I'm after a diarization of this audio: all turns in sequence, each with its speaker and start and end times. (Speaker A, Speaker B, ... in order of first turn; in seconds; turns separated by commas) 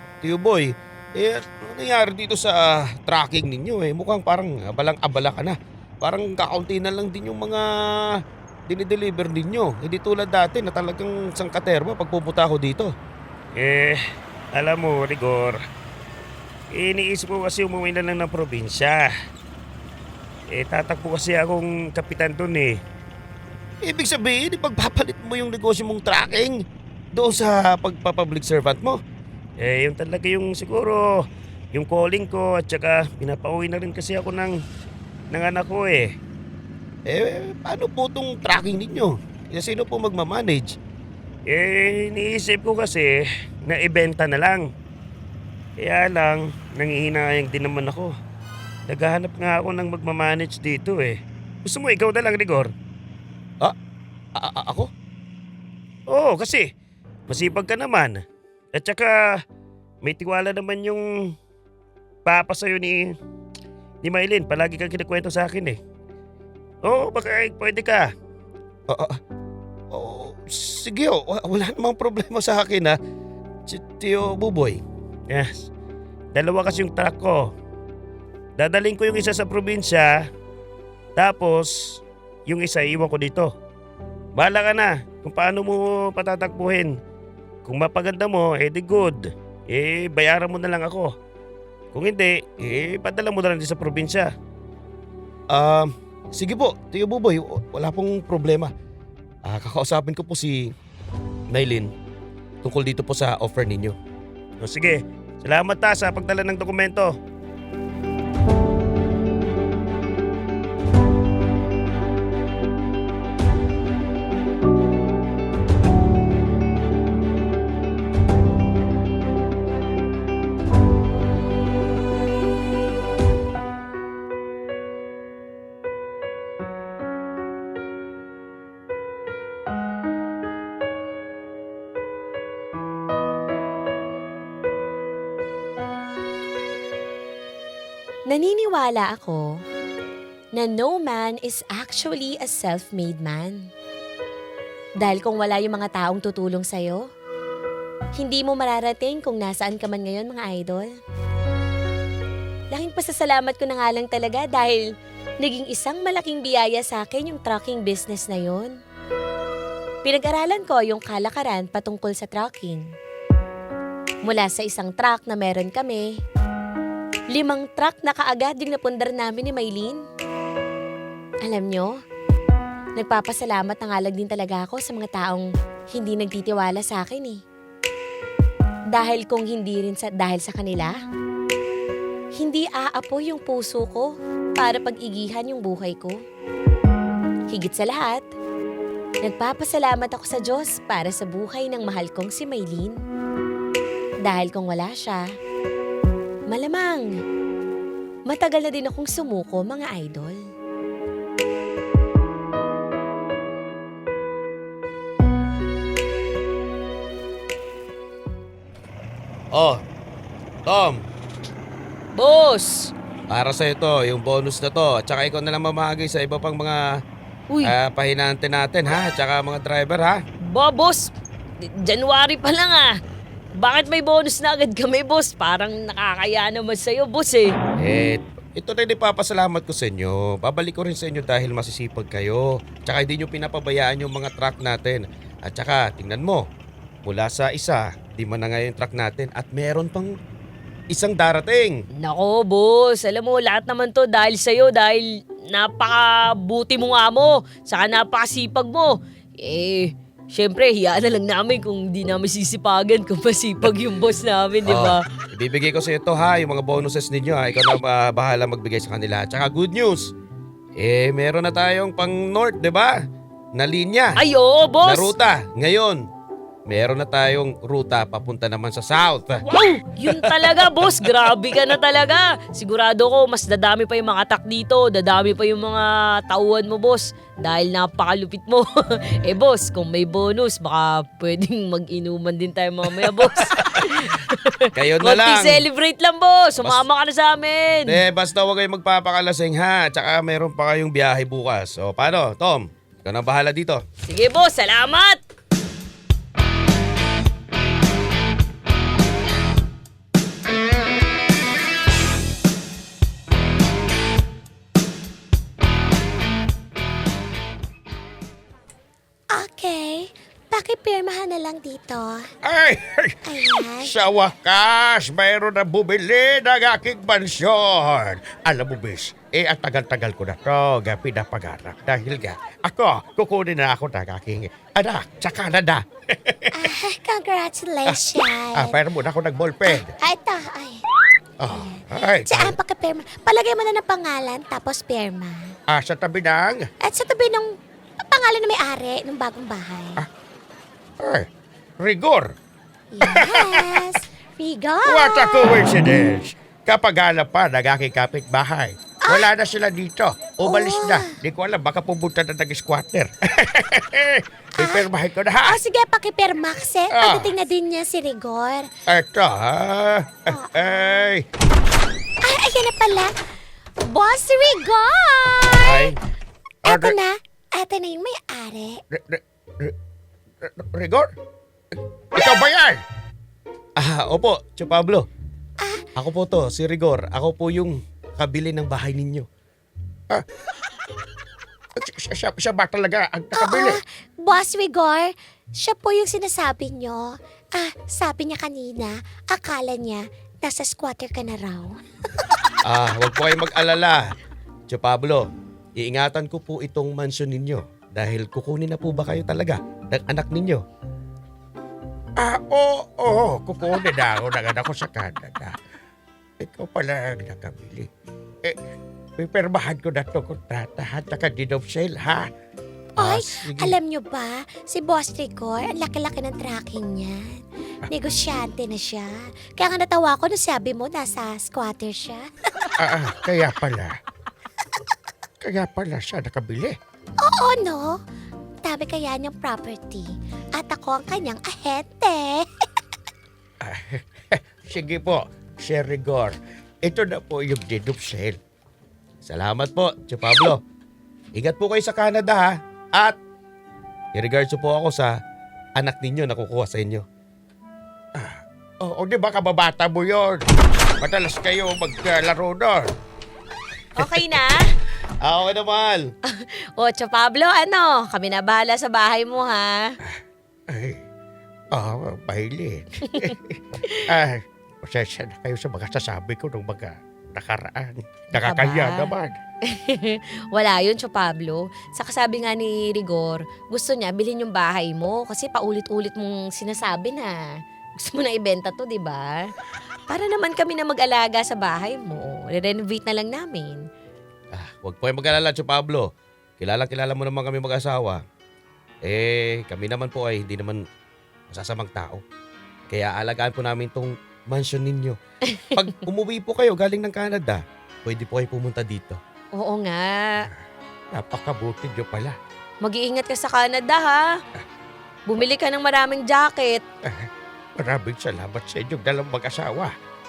Speaker A: 0.2-12.9, Speaker A: 13.5-14.0, Speaker A: 14.5-15.6, Speaker A: 16.7-19.1, Speaker A: 20.5-22.8, Speaker A: 23.8-29.0, Speaker A: 29.6-31.1, Speaker A: 31.7-34.6, Speaker A: 35.3-36.1, Speaker A: 37.1-40.8, Speaker A: 41.5-44.7, Speaker A: 45.8-48.1, Speaker A: 48.9-52.7, Speaker A: 54.4-54.9, Speaker A: 56.1-56.7, Speaker A: 57.3-58.2, Speaker A: 58.7-59.4, Speaker A: 60.0-61.3, Speaker A: 62.2-63.1, Speaker A: 64.0-65.8, Speaker A: 66.8-68.1, Speaker A: 68.9-69.2, Speaker A: 69.9-73.0, Speaker A: 73.7-75.7, Speaker A: 76.3-77.5, Speaker A: 78.6-80.2, Speaker A: 81.2-83.5, Speaker A: 84.3-86.9, Speaker A: 87.6-91.1, Speaker A: 91.9-94.3, Speaker A: 95.5-98.7, Speaker A: 99.4-100.7, Speaker A: 101.5-101.9, Speaker A: 102.6-104.0, Speaker A: 104.6-107.1, Speaker B: 138.3-139.4, Speaker B: 140.5-143.6, Speaker B: 145.0-147.0, Speaker B: 148.2-150.9, Speaker B: 152.7-154.8, Speaker B: 155.4-158.7, Speaker B: 160.0-162.8, Speaker B: 164.2-166.1, Speaker B: 167.3-170.0, Speaker B: 171.4-171.9, Speaker B: 172.9-177.4, Speaker B: 178.9-180.9, Speaker B: 182.4-186.2, Speaker B: 187.5-188.2, Speaker B: 189.2-192.9, Speaker B: 194.2-195.2, Speaker B: 196.5-197.1, Speaker B: 198.3-200.4, Speaker A: 209.5-209.8, Speaker A: 210.7-211.0, Speaker B: 212.1-212.9, Speaker A: 213.3-216.8, Speaker A: 217.6-220.2, Speaker B: 220.5-221.1, Speaker B: 221.6-222.9, Speaker B: 223.6-227.5, Speaker A: 227.8-236.4, Speaker A: 237.0-240.1, Speaker A: 240.9-241.8, Speaker B: 242.0-255.0, Speaker A: 254.6-260.1, Speaker A: 260.8-263.0, Speaker A: 263.5-264.2, Speaker B: 264.1-265.1, Speaker A: 264.8-266.1, Speaker A: 266.7-269.4, Speaker B: 269.4-278.7, Speaker A: 270.0-271.2, Speaker B: 279.2-288.0, Speaker A: 282.9-284.1, Speaker A: 284.7-285.7, Speaker A: 287.9-293.8, Speaker B: 294.0-295.2, Speaker C: 309.3-312.2, Speaker A: 312.4-326.7, Speaker B: 313.3-313.6, Speaker C: 313.4-313.7, Speaker C: 326.6-328.5, Speaker B: 328.0-328.5, Speaker A: 328.5-329.9, Speaker C: 330.0-330.8, Speaker A: 331.4-332.6, Speaker C: 332.4-335.5, Speaker A: 335.7-336.6, Speaker C: 336.9-337.5, Speaker C: 338.0-340.0, Speaker A: 341.0-341.2, Speaker A: 341.8-342.3, Speaker C: 343.0-345.3, Speaker A: 343.1-344.0, Speaker B: 343.1-343.5, Speaker A: 344.8-355.6, Speaker C: 355.7-358.6, Speaker A: 356.9-357.3, Speaker B: 356.9-357.5, Speaker A: 358.9-361.2, Speaker C: 362.2-363.1, Speaker C: 363.9-365.7, Speaker A: 365.6-366.0, Speaker A: 366.6-366.9, Speaker C: 366.7-368.8, Speaker A: 368.9-369.7, Speaker A: 370.4-371.1, Speaker A: 372.1-372.8, Speaker A: 373.8-375.1, Speaker A: 375.9-379.3, Speaker A: 381.8-383.8, Speaker C: 383.4-391.8, Speaker A: 392.6-394.0, Speaker A: 394.7-400.6, Speaker A: 402.2-405.6, Speaker A: 406.4-407.9, Speaker A: 409.2-412.3, Speaker A: 413.0-413.8, Speaker C: 413.7-417.2, Speaker C: 417.9-422.2, Speaker A: 422.8-424.0, Speaker A: 425.4-426.7, Speaker C: 427.3-427.9, Speaker C: 428.6-430.1, Speaker C: 430.6-432.4, Speaker A: 433.6-438.4, Speaker A: 439.2-440.6, Speaker A: 441.3-443.2, Speaker A: 444.1-445.1, Speaker A: 445.8-447.0, Speaker A: 448.1-450.4, Speaker A: 451.0-452.9, Speaker B: 454.0-454.7, Speaker A: 454.0-454.3, Speaker A: 455.2-456.1, Speaker B: 456.3-459.9, Speaker A: 460.7-461.0, Speaker A: 461.7-469.4, Speaker B: 463.1-463.3, Speaker B: 468.3-469.1, Speaker B: 469.7-477.4, Speaker B: 478.0-479.5, Speaker B: 480.1-483.8, Speaker A: 484.5-488.2, Speaker A: 489.0-490.8, Speaker A: 491.5-492.2, Speaker A: 492.9-495.2, Speaker B: 495.5-495.8, Speaker A: 495.7-499.2, Speaker B: 499.5-500.5, Speaker A: 501.1-502.4, Speaker B: 502.8-504.3, Speaker B: 505.3-506.8, Speaker A: 507.0-509.9